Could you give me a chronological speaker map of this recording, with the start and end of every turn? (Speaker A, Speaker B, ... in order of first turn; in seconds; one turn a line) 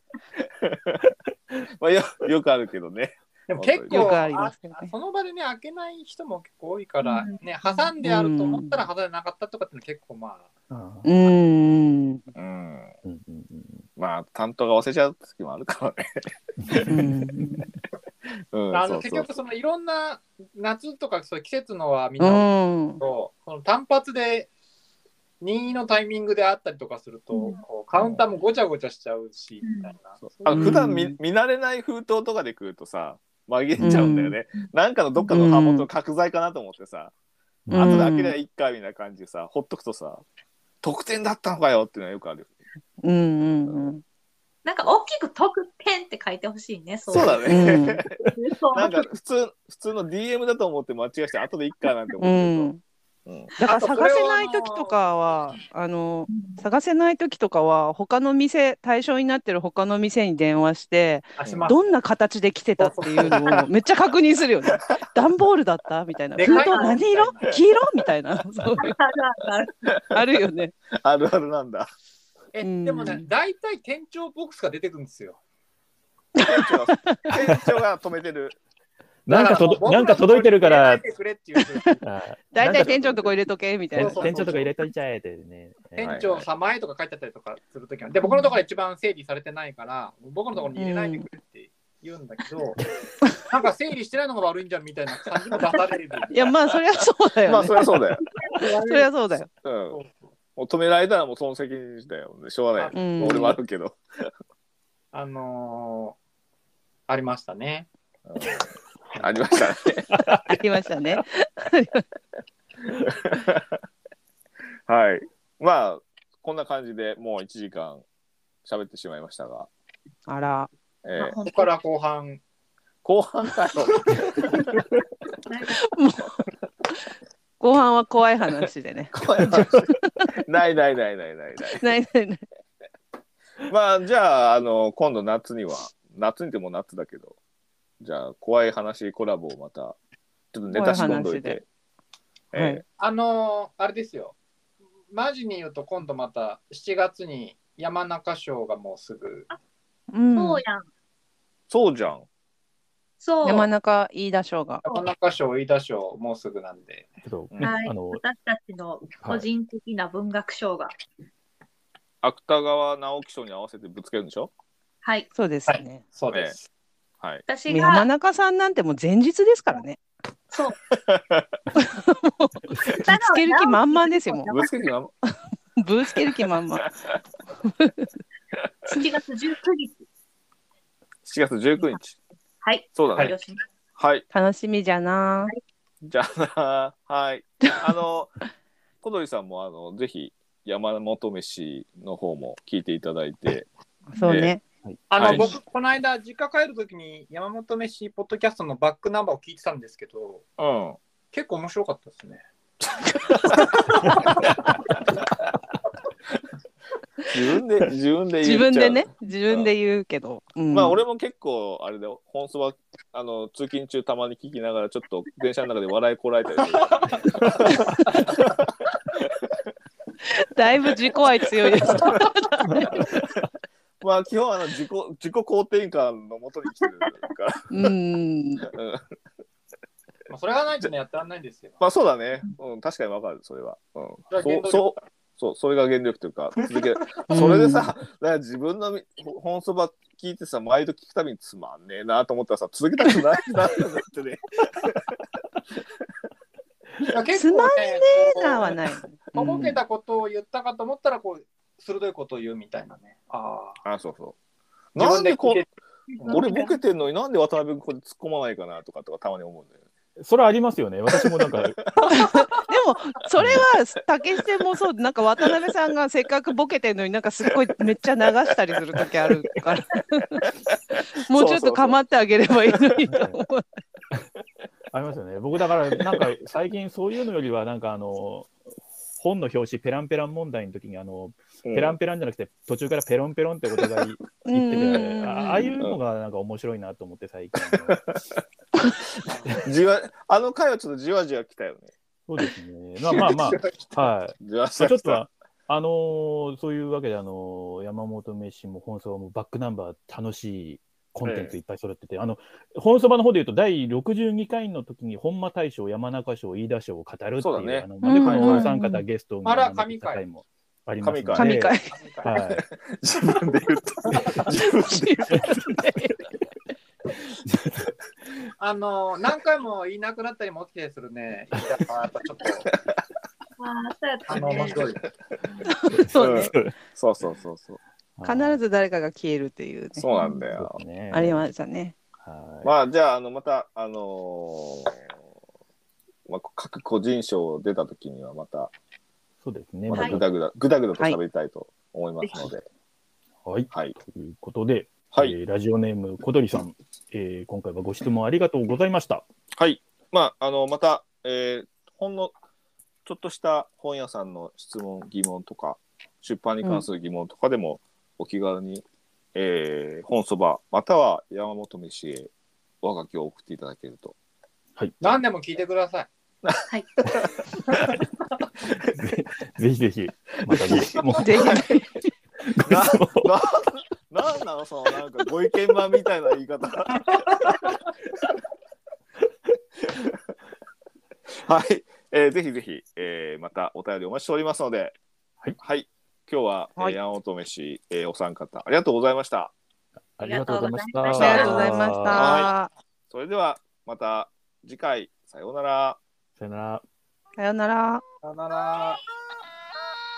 Speaker A: 0.4-4.3
Speaker B: 3.5-10.5
Speaker C: 3.9-4.9
Speaker D: 7.0-7.9
Speaker C: 8.0-8.8
Speaker E: 10.7-11.1
Speaker C: 11.0-12.2
Speaker A: 12.3-12.9
Speaker E: 13.0-13.8
Speaker A: 14.0-16.8
Speaker E: 16.6-17.7
Speaker C: 16.9-17.6
Speaker A: 18.5-19.3
Speaker B: 18.7-24.5
Speaker C: 22.2-23.0
Speaker B: 25.4-30.7
Speaker D: 27.3-27.6
Speaker A: 27.9-28.2
Speaker D: 29.6-29.9
Speaker A: 30.3-37.1
Speaker C: 30.5-31.2
Speaker C: 33.8-34.4
Speaker C: 35.3-35.9
Speaker E: 37.7-38.0
Speaker A: 37.7-40.2
Speaker C: 37.7-38.3
Speaker A: 40.8-42.5
Speaker C: 43.0-44.0
Speaker D: 44.6-49.1
Speaker A: 47.1-48.2
Speaker C: 47.5-48.0
Speaker A: 48.7-52.7
Speaker C: 52.2-52.8
Speaker A: 53.2-53.5
Speaker C: 53.5-69.0
Speaker B: 53.6-55.0
Speaker D: 56.3-56.6
Speaker B: 61.4-61.9
Speaker A: 61.4-61.7
Speaker B: 62.8-63.6
Speaker B: 66.3-67.6
Speaker D: 66.4-67.0
Speaker D: 68.8-70.0
Speaker C: 70.1-70.7
Speaker A: 70.9-71.9
Speaker B: 72.5-75.4
Speaker C: 72.6-73.3
Speaker C: 76.3-77.4
Speaker A: 76.4-78.6
Speaker E: 79.2-81.0
Speaker B: 79.3-82.0
Speaker C: 81.6-81.9
Speaker E: 82.0-83.1
Speaker C: 82.5-84.5
Speaker A: 82.8-83.3
Speaker E: 83.9-86.2
Speaker B: 84.0-84.8
Speaker B: 86.0-92.8
Speaker A: 86.0-86.4
Speaker C: 90.8-91.2
Speaker B: 93.5-96.5
Speaker C: 96.3-98.0
Speaker A: 97.4-98.2
Speaker D: 98.4-99.1
Speaker C: 98.5-99.5
Speaker A: 99.6-100.0
Speaker A: 100.5-104.3
Speaker B: 102.8-103.5
Speaker C: 102.9-103.6
Speaker B: 105.1-106.2
Speaker B: 107.1-107.9
Speaker A: 108.3-110.1
Speaker B: 109.1-109.4
Speaker E: 110.2-110.5
Speaker C: 110.5-112.0
Speaker A: 113.1-113.8
Speaker A: 114.9-118.0
Speaker A: 118.6-119.7
Speaker C: 120.3-120.7
Speaker A: 121.0-121.4
Speaker D: 121.2-121.7
Speaker B: 121.4-122.4
Speaker A: 123.0-124.8
Speaker D: 125.5-125.8
Speaker C: 125.7-126.3
Speaker C: 127.6-129.9
Speaker A: 129.1-131.8
Speaker C: 131.7-132.4
Speaker A: 133.6-137.3
Speaker A: 138.0-139.9
Speaker A: 140.5-141.6
Speaker C: 140.7-141.6
Speaker C: 142.5-142.8
Speaker A: 142.5-142.8
Speaker B: 143.0-144.3
Speaker B: 145.1-149.5
Speaker C: 150.1-150.6
Speaker D: 150.3-150.9
Speaker A: 151.7-152.2
Speaker D: 153.2-153.7
Speaker C: 153.4-154.8
Speaker B: 154.9-157.1
Speaker E: 157.2-158.2
Speaker D: 157.6-160.9
Speaker A: 162.2-164.5
Speaker D: 165.0-165.3
Speaker C: 165.3-166.0
Speaker B: 165.7-166.7
Speaker D: 167.5-168.1
Speaker C: 167.7-170.0
Speaker D: 170.5-170.8
Speaker A: 171.0-171.4
Speaker C: 171.8-174.6
Speaker D: 172.9-174.9
Speaker A: 174.5-175.1
Speaker C: 175.8-176.9
Speaker C: 177.6-178.1
Speaker D: 178.9-180.0
Speaker A: 181.2-182.2
Speaker D: 181.8-182.0
Speaker D: 182.6-183.6
Speaker A: 182.9-183.3
Speaker A: 184.0-184.2
Speaker C: 184.3-185.5
Speaker A: 186.0-188.3
Speaker A: 189.0-193.7
Speaker C: 194.1-194.6
Speaker A: 194.2-194.5
Speaker B: 195.1-200.4
Speaker A: 195.2-195.5
Speaker A: 200.6-201.0
Speaker B: 201.3-202.4
Speaker A: 203.0-204.4
Speaker B: 204.0-204.5
Speaker A: 207.3-209.7
Speaker C: 208.4-211.0
Speaker A: 210.7-218.7
Speaker C: 220.4-222.9
Speaker A: 222.9-223.2
Speaker A: 224.0-227.7
Speaker C: 227.7-228.7
Speaker A: 228.7-229.0
Speaker B: 230.3-231.8
Speaker A: 231.8-245.1
Speaker B: 234.3-235.0
Speaker C: 237.3-237.9
Speaker B: 247.1-248.8
Speaker C: 247.3-249.8
Speaker B: 249.3-253.8
Speaker A: 253.8-254.3
Speaker A: 254.9-255.6
Speaker B: 254.9-256.6
Speaker D: 256.1-256.7
Speaker A: 256.3-259.7
Speaker E: 260.2-261.8
Speaker A: 261.1-261.9
Speaker C: 262.0-270.4
Speaker E: 263.4-263.6
Speaker C: 271.2-273.6
Speaker A: 271.3-272.0
Speaker E: 273.1-273.4
Speaker E: 274.9-278.5
Speaker A: 275.9-276.2
Speaker E: 279.2-288.0
Speaker A: 281.6-282.0
Speaker C: 284.4-285.8
Speaker A: 287.6-291.9
Speaker E: 292.3-312.6
Speaker A: 293.1-293.4
Speaker A: 294.4-295.2
Speaker A: 301.2-301.5
Speaker A: 307.4-308.7
Speaker C: 308.0-309.0
Speaker B: 309.4-310.2
Speaker A: 311.0-311.7
Speaker C: 311.3-311.9
Speaker B: 311.9-312.3
Speaker A: 312.3-315.7
Speaker C: 314.6-316.1
Speaker E: 317.3-317.9
Speaker B: 318.6-322.7
Speaker A: 322.7-323.0
Speaker D: 323.6-325.0
Speaker B: 324.3-325.0
Speaker C: 325.6-326.5
Speaker E: 325.9-326.8
Speaker A: 326.2-327.8
Speaker E: 328.2-328.6
Speaker C: 328.2-330.1
Speaker A: 330.0-330.8
Speaker D: 330.1-330.5
Speaker E: 330.5-331.5
Speaker C: 331.1-331.9
Speaker E: 332.2-332.7
Speaker A: 332.6-335.0
Speaker A: 336.3-338.7
Speaker E: 339.4-340.3
Speaker A: 339.9-342.6
Speaker D: 339.9-340.2
Speaker D: 342.2-342.5
Speaker E: 343.4-349.2
Speaker A: 343.7-344.0
Speaker A: 345.1-345.4
Speaker A: 349.6-352.3
Speaker A: 353.1-362.3
Speaker A: 362.8-364.1
Speaker B: 365.0-366.1
Speaker A: 366.4-368.0
Speaker E: 368.7-371.6
Speaker A: 370.5-371.7
Speaker C: 371.1-371.9
Speaker E: 372.4-373.3
Speaker A: 372.7-377.6
Speaker A: 379.8-380.1
Speaker A: 381.3-384.9
Speaker A: 385.6-389.5
Speaker E: 390.2-392.4
Speaker D: 390.2-391.7
Speaker C: 391.1-392.7
Speaker A: 392.1-392.5
Speaker A: 393.1-396.0
Speaker E: 396.4-396.8
Speaker C: 397.4-398.0
Speaker B: 398.2-399.0